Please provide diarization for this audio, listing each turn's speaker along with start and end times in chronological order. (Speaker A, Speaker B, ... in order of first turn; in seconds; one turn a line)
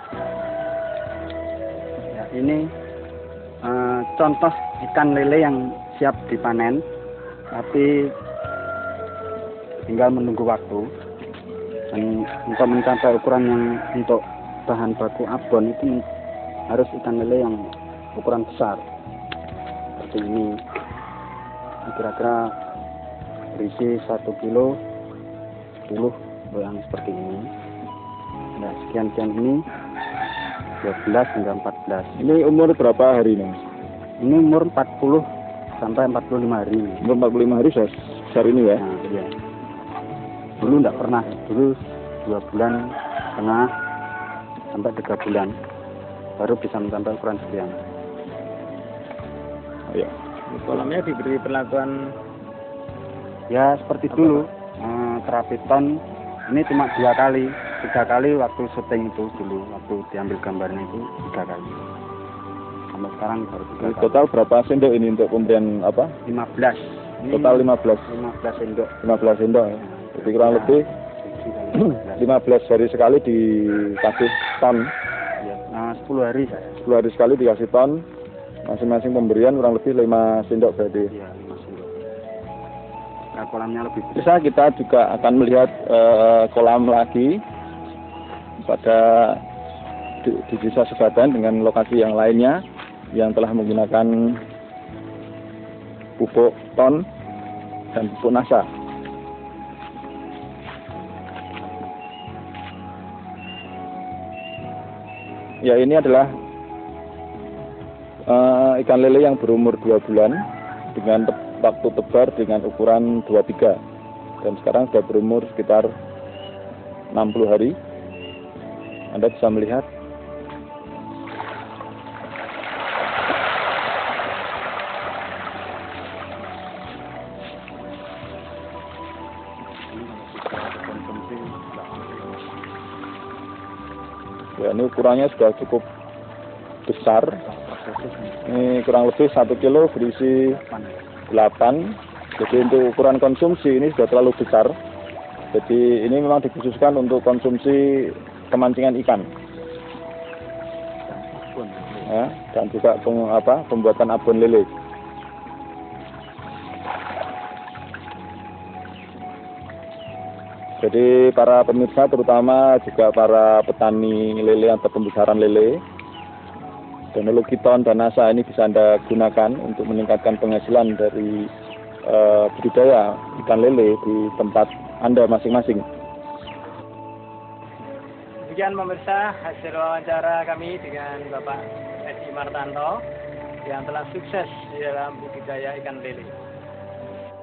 Speaker A: 2.1-2.6
Speaker A: 3.6-6.8
Speaker A: 7.5-8.0
Speaker A: 9.9-10.9
Speaker A: 11.9-16.0
Speaker A: 16.7-17.6
Speaker A: 18.1-18.8
Speaker A: 20.0-20.6
Speaker A: 21.9-22.5
Speaker A: 23.6-24.8
Speaker A: 25.9-27.5
Speaker A: 28.6-29.6
Speaker A: 30.8-32.1
Speaker B: 32.2-33.6
Speaker A: 34.2-35.2
Speaker A: 35.8-37.0
Speaker B: 37.0-38.8
Speaker A: 38.8-39.3
Speaker A: 40.6-42.8
Speaker A: 43.4-43.7
Speaker A: 44.7-45.5
Speaker A: 46.4-47.8
Speaker C: 50.5-51.9
Speaker A: 53.5-55.9
Speaker A: 56.5-61.8
Speaker A: 62.9-64.2
Speaker B: 63.8-66.1
Speaker A: 66.2-68.9
Speaker B: 67.3-68.1
Speaker B: 69.0-70.9
Speaker A: 69.8-72.4
Speaker B: 72.0-74.9
Speaker A: 75.4-76.8
Speaker B: 76.8-78.0
Speaker B: 78.7-81.1
Speaker A: 81.1-82.0
Speaker A: 83.3-84.2
Speaker B: 84.1-87.4
Speaker B: 88.6-89.4
Speaker B: 90.2-92.6
Speaker B: 93.1-94.4
Speaker B: 96.2-97.0
Speaker B: 97.9-98.7
Speaker B: 105.6-106.3
Speaker B: 108.3-113.8
Speaker B: 114.4-115.9
Speaker B: 117.1-117.8
Speaker B: 119.1-119.9
Speaker A: 129.9-132.4
Speaker B: 134.6-135.8
Speaker B: 136.8-137.4
Speaker A: 137.4-138.7
Speaker B: 138.5-140.6
Speaker A: 140.5-141.0
Speaker B: 141.3-144.8
Speaker B: 145.5-149.3
Speaker A: 151.1-152.1
Speaker B: 152.1-154.7
Speaker B: 160.8-165.8
Speaker B: 167.1-171.5
Speaker B: 172.1-175.8
Speaker C: 178.4-183.0
Speaker C: 183.6-186.3